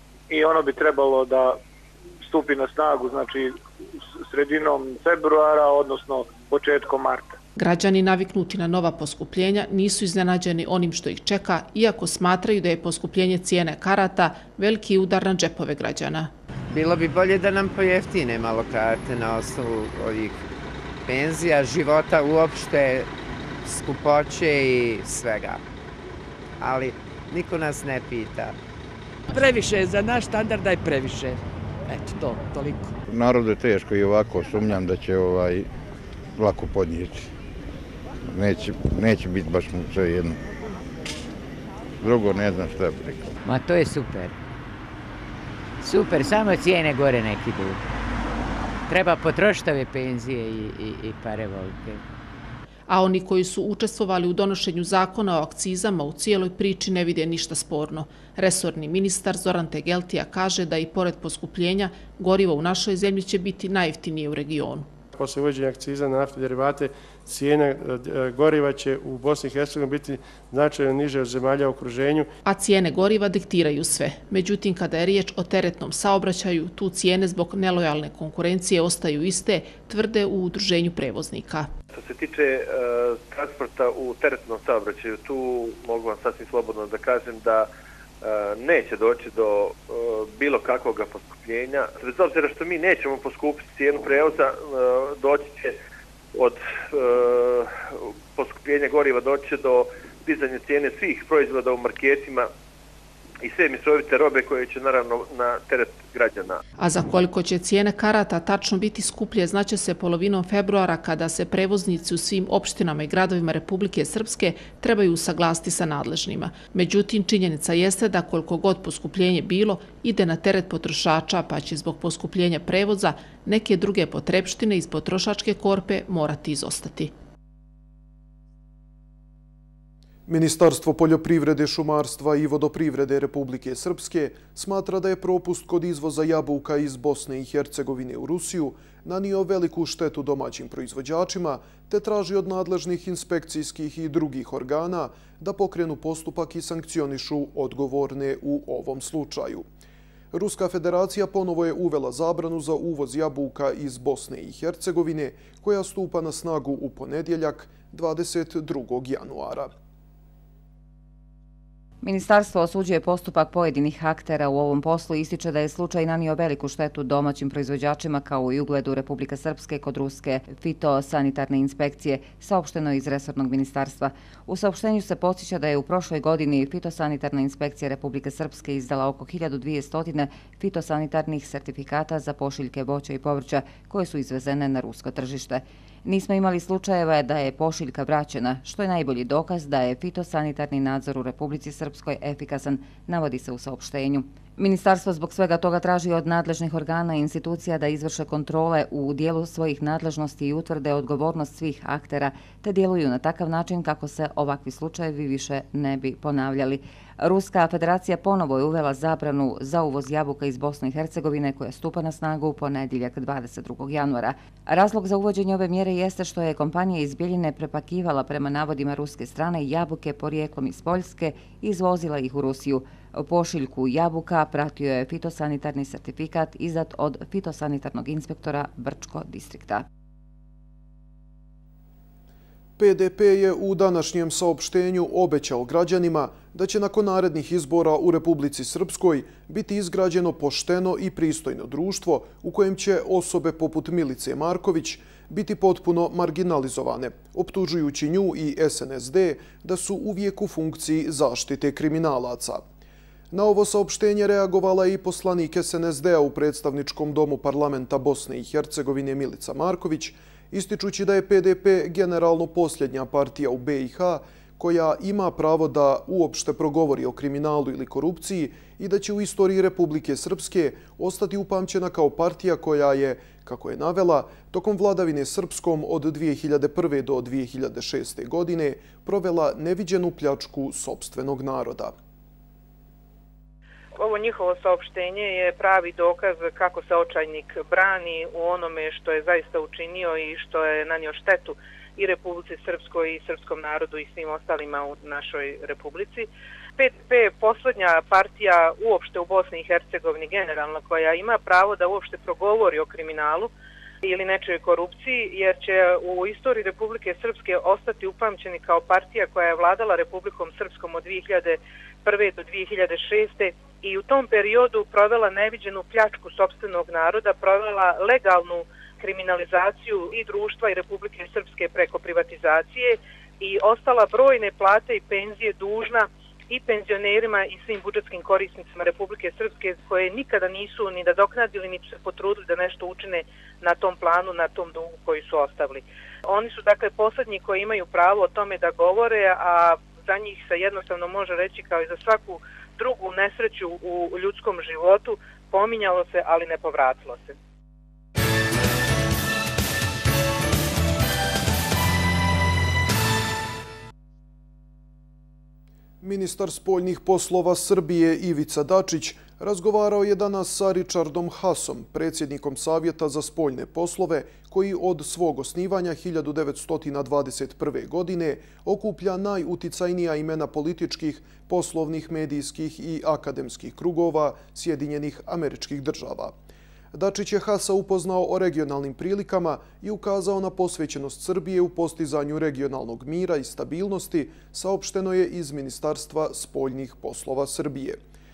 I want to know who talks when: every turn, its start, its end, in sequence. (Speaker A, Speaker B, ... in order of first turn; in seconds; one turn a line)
Speaker A: 0.3-1.6
Speaker A: 2.2-3.6
Speaker A: 4.2-7.4
Speaker B: 7.6-16.3
Speaker C: 16.7-20.4
Speaker C: 21.1-23.1
Speaker C: 23.6-25.6
Speaker C: 26.6-28.5
Speaker D: 29.3-32.9
Speaker E: 33.1-35.7
Speaker E: 36.4-37.3
Speaker E: 38.3-40.4
Speaker E: 42.0-43.3
Speaker F: 43.4-44.3
Speaker F: 45.8-47.8
Speaker F: 48.9-52.0
Speaker B: 52.9-64.9
Speaker G: 65.2-72.3
Speaker B: 72.4-81.7
Speaker H: 81.9-87.7
Speaker H: 88.2-95.8
Speaker H: 96.3-102.5
Speaker H: 103.4-106.6
Speaker B: 106.8-127.1
Speaker I: 130.3-149.7
Speaker I: 150.3-159.7
Speaker J: 162.0-229.8
Speaker I: 232.8-252.6
Speaker I: 253.3-281.9
Speaker K: 283.9-303.5
Speaker K: 304.0-347.3
Speaker I: 356.0-376.3
Speaker I: 376.9-388.0